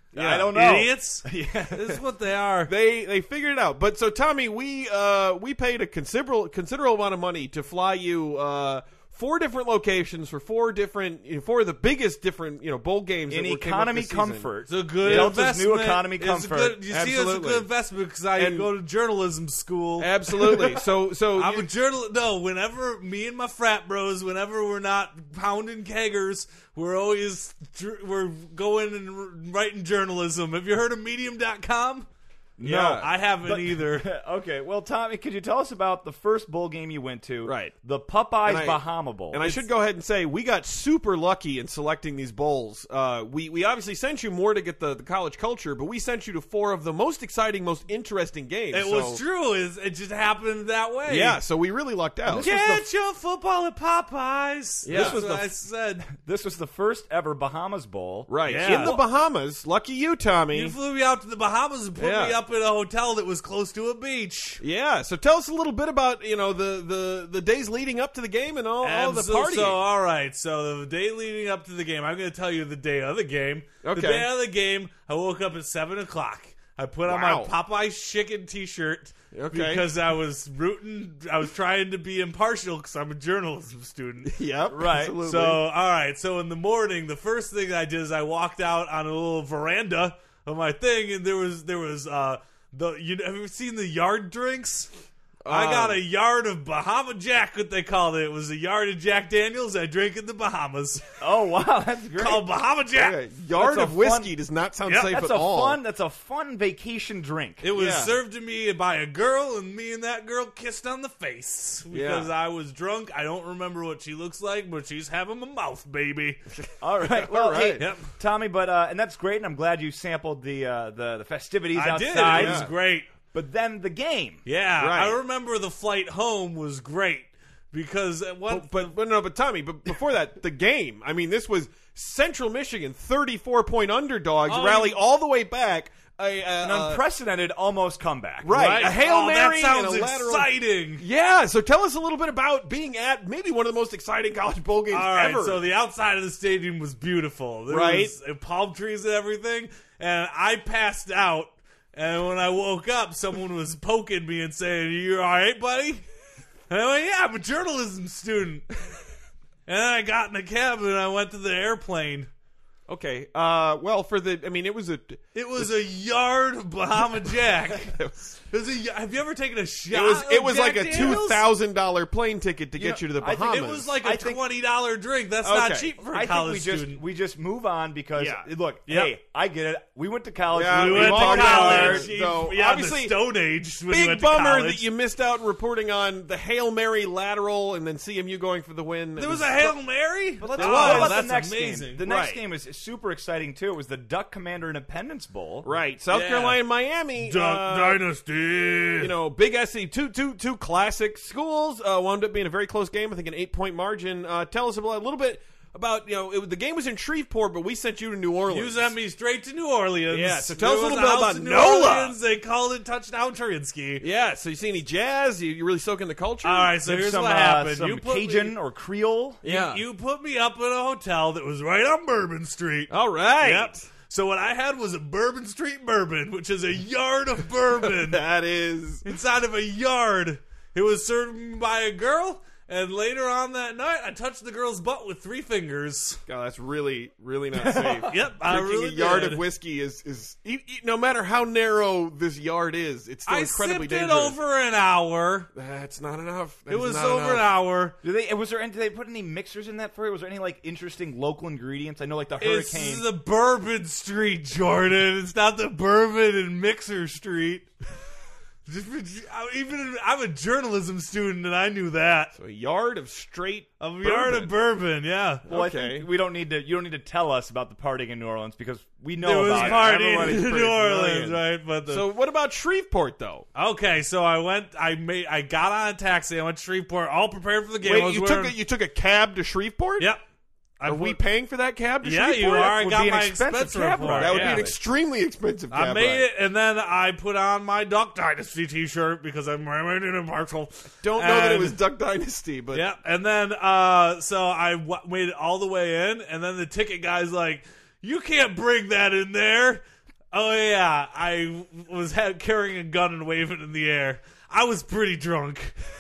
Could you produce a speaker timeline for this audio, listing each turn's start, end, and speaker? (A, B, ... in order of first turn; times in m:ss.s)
0:00.1-0:00.5 A
0:00.1-0:02.0 B
0:00.3-0:02.7 C
0:02.7-0:15.4 A
0:13.3-0:16.8 B
0:14.7-0:20.8 C
0:16.9-0:17.7 A
0:18.4-0:18.7 A
0:20.0-0:21.7 A
0:21.4-0:32.1 C
0:32.6-0:39.6 B
0:32.6-0:33.1 A
0:32.7-0:34.1 C
0:37.4-0:37.7 A
0:38.4-0:49.2 A
0:48.7-0:51.4 C
0:51.1-0:52.5 A
0:52.3-0:56.1 C
0:52.3-0:52.9 B
0:54.8-0:55.2 A
0:54.9-0:55.5 B
0:56.1-0:59.0 B
0:58.3-1:00.8 A
0:58.5-0:59.0 C
1:00.5-1:04.6 C
1:02.0-1:02.4 A
1:04.6-1:09.8 A
1:08.8-1:24.4 C
1:13.8-1:14.3 A
1:17.1-1:17.5 A
1:19.3-1:19.9 A
1:24.2-1:25.6 A
1:24.7-1:25.2 B
1:25.2-1:34.9 C
1:35.4-1:36.0 A
1:35.5-1:41.0 C
1:41.2-1:42.4 B
1:42.2-1:43.2 C
1:43.0-1:45.8 A
1:43.6-1:44.3 B
1:44.9-1:45.1 C
1:45.0-1:47.6 B
1:47.6-1:56.4 C
1:47.7-1:48.2 A
1:51.9-1:52.3 A
1:56.8-2:02.7 B
1:57.0-1:57.9 A
2:01.8-2:03.1 C
2:02.3-2:02.7 A
2:03.3-2:04.4 B
2:04.4-2:08.9 C
2:04.8-2:05.2 A
2:08.5-2:17.0 A
2:14.5-2:15.0 C
2:16.6-2:18.6 B
2:18.4-2:25.6 A
2:18.5-2:21.0 C
2:24.9-2:36.0 C
2:27.7-2:28.1 A
2:36.7-2:38.8 C
2:39.7-2:42.3 C
2:42.9-2:45.8 A
2:45.3-2:51.5 C
2:47.7-2:48.3 A
2:49.9-2:53.9 A
2:52.8-2:54.4 B
2:53.5-2:57.0 C
2:55.4-2:55.9 A
2:56.1-3:02.1 B
2:58.2-2:58.5 A
2:58.9-2:59.1 C
3:00.5-3:03.2 A
3:00.7-3:04.9 C
3:03.9-3:09.8 A
3:09.2-3:12.0 C
3:10.4-3:15.7 B
3:10.6-3:11.2 A
3:12.0-3:12.4 A
3:15.6-3:18.0 A
3:16.1-3:16.6 C
3:17.2-3:19.1 C
3:19.0-3:28.9 A
3:28.5-3:34.0 C
3:30.1-3:32.2 A
3:34.0-3:36.8 A
3:36.4-3:38.6 C
3:36.8-3:39.4 B
3:39.4-3:39.8 A
3:39.4-3:48.2 C
3:42.9-3:43.9 A
3:47.8-3:49.1 A
3:49.0-3:56.2 C
3:56.3-4:04.4 A
3:57.6-3:58.1 B
3:58.1-3:59.4 C
4:03.3-4:05.5 C
4:05.5-4:07.5 A
4:06.7-4:08.0 C
4:08.0-4:13.1 B
4:12.4-4:17.7 C
4:18.7-4:22.3 C
4:22.4-4:24.5 A
4:23.8-4:25.4 C
4:25.4-4:26.1 A
4:25.5-4:30.8 B
4:29.2-4:32.1 C
4:29.5-4:33.5 A
4:33.6-4:38.6 C
4:37.8-4:40.1 A
4:40.8-4:41.2 C
4:40.8-4:42.6 A
4:42.0-4:44.7 C
4:42.4-4:44.8 B
4:44.2-4:46.3 A
4:45.7-4:51.8 C
4:51.0-4:52.9 A
4:52.7-5:05.8 C